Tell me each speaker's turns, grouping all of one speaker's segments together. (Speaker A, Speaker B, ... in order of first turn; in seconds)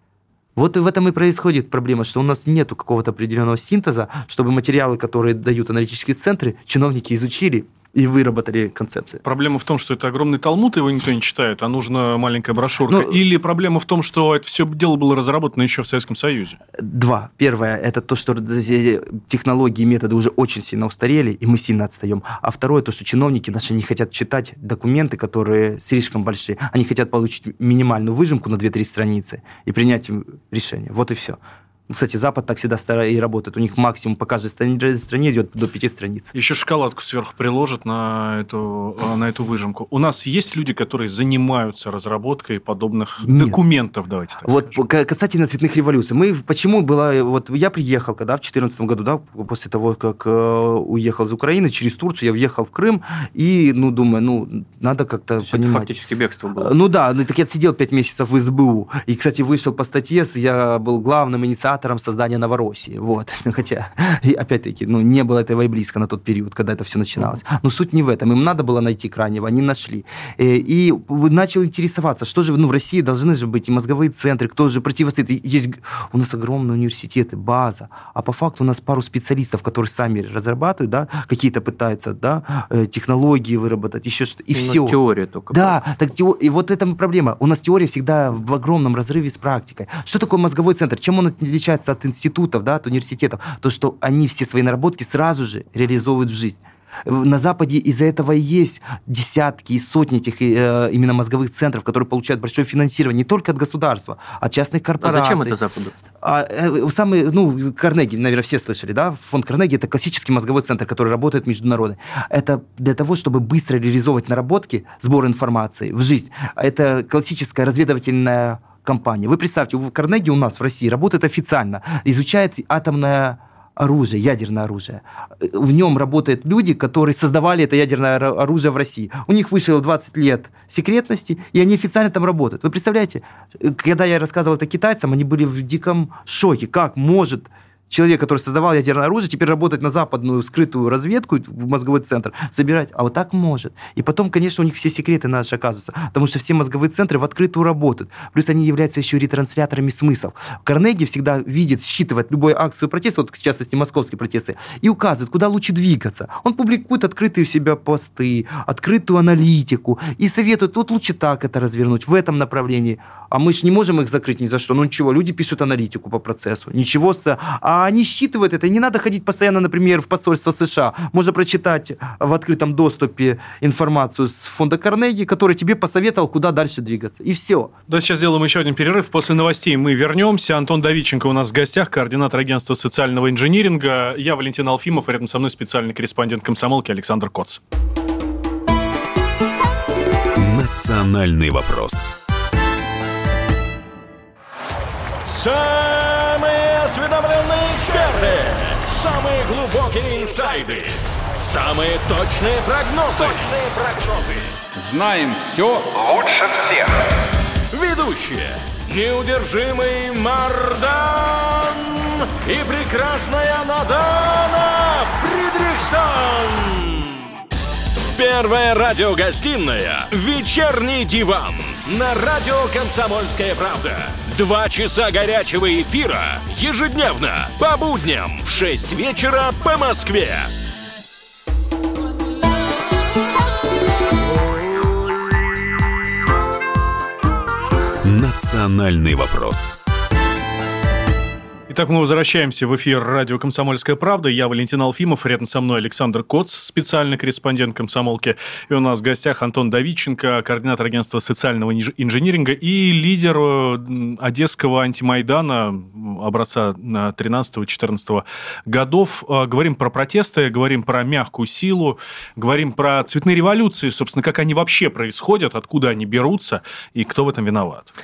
Speaker A: 0.6-9.2, 12.9-13.2, 16.8-36.3, 43.2-43.6, 44.5-55.9, 56.6-85.0, 85.5-105.6, 106.2-177.7
Speaker B: 9.2-16.6, 36.3-44.7, 177.9-187.6, 241.7-267.9
Speaker C: 55.4-56.7, 84.5-85.8, 105.0-105.9
Speaker D: 190.4-192.1, 238.0-239.8
Speaker E: 195.3-207.1, 207.7-217.1, 218.2-230.5